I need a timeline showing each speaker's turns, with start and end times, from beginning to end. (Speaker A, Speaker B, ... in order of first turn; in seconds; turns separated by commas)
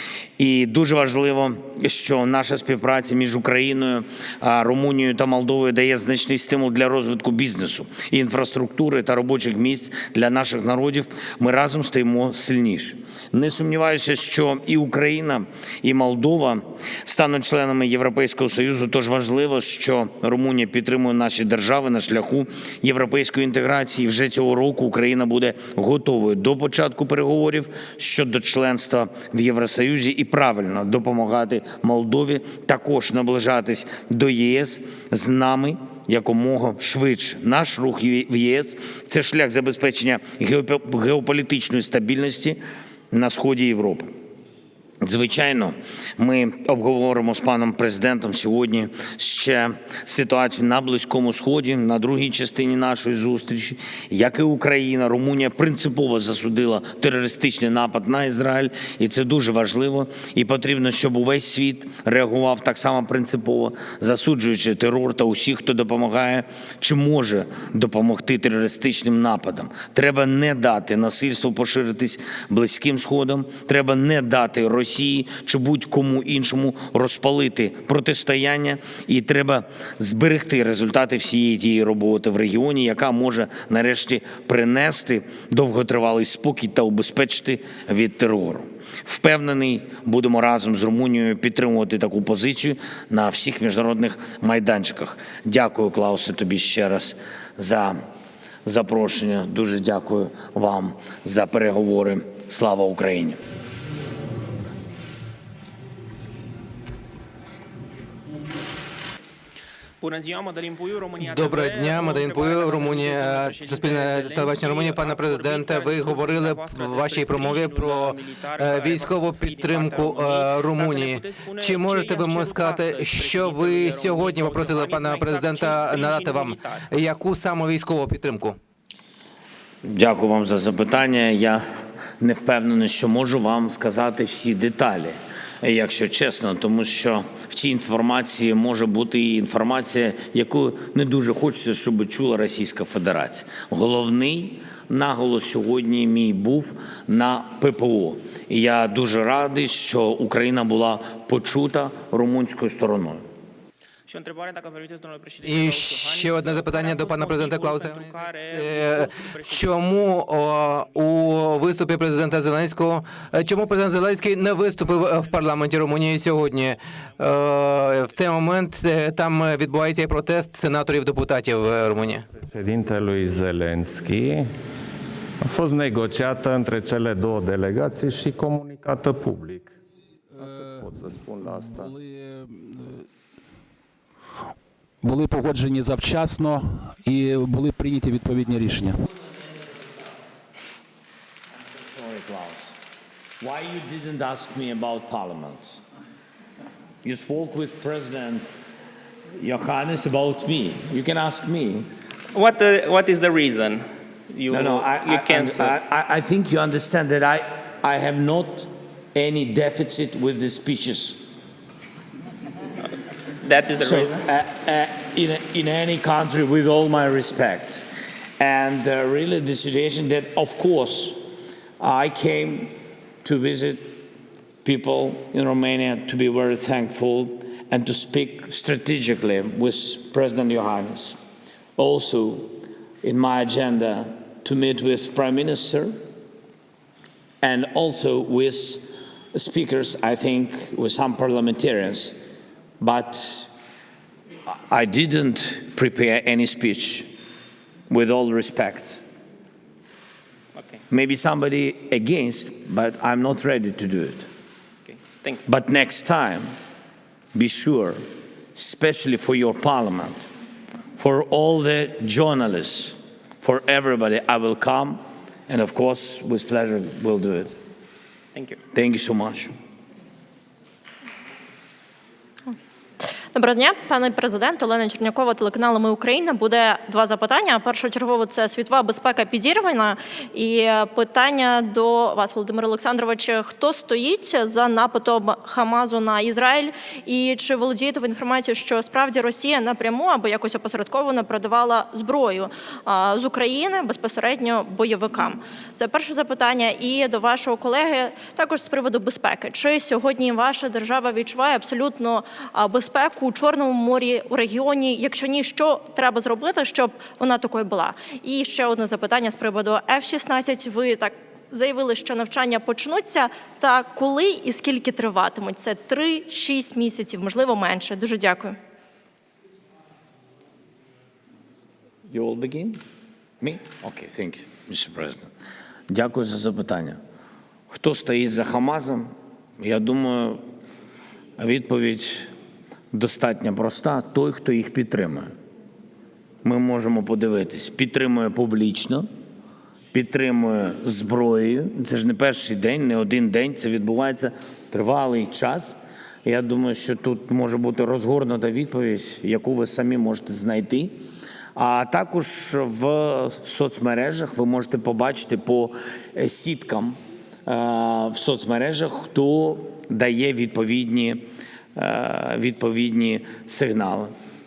Speaker A: 0.4-42.6, Speaker A: 43.1-44.1, Speaker A: 45.0-98.0, Speaker A: 98.6-103.4, Speaker B: 110.0-126.8, Speaker C: 111.2-128.6, Speaker A: 129.8-131.6, Speaker A: 132.2-153.2, Speaker B: 154.1-159.6, Speaker C: 155.4-172.2, Speaker D: 172.4-174.5, Speaker D: 175.4-179.7, Speaker E: 180.4-180.8, Speaker D: 180.4-181.9, Speaker E: 181.5-183.1, Speaker E: 185.0-189.1, Speaker A: 191.7-192.8, Speaker A: 193.4-195.8, Speaker A: 197.0-198.5, Speaker A: 199.4-201.9, Speaker B: 202.3-205.7, Speaker A: 204.5-211.2, Speaker B: 213.4-214.2, Speaker A: 213.8-217.9, Speaker A: 218.4-221.2, Speaker A: 221.8-224.1, Speaker A: 224.6-231.2, Speaker A: 231.8-236.0, Speaker A: 237.4-242.2, Speaker A: 242.8-243.5, Speaker A: 244.5-247.1, Speaker A: 247.9-249.0, Speaker A: 250.9-254.3, Speaker B: 254.9-255.4, Speaker A: 255.4-256.5, Speaker A: 257.3-260.2, Speaker A: 261.0-267.6, Speaker B: 268.3-268.6, Speaker A: 268.7-269.5, Speaker F: 273.3-318.6, Speaker A: 322.1-322.8, Speaker A: 323.4-325.3, Speaker A: 325.9-327.0, Speaker A: 327.7-330.4, Speaker A: 331.4-332.3, Speaker A: 332.9-335.3, Speaker A: 336.4-339.1, Speaker A: 339.9-351.0, Speaker A: 351.5-364.1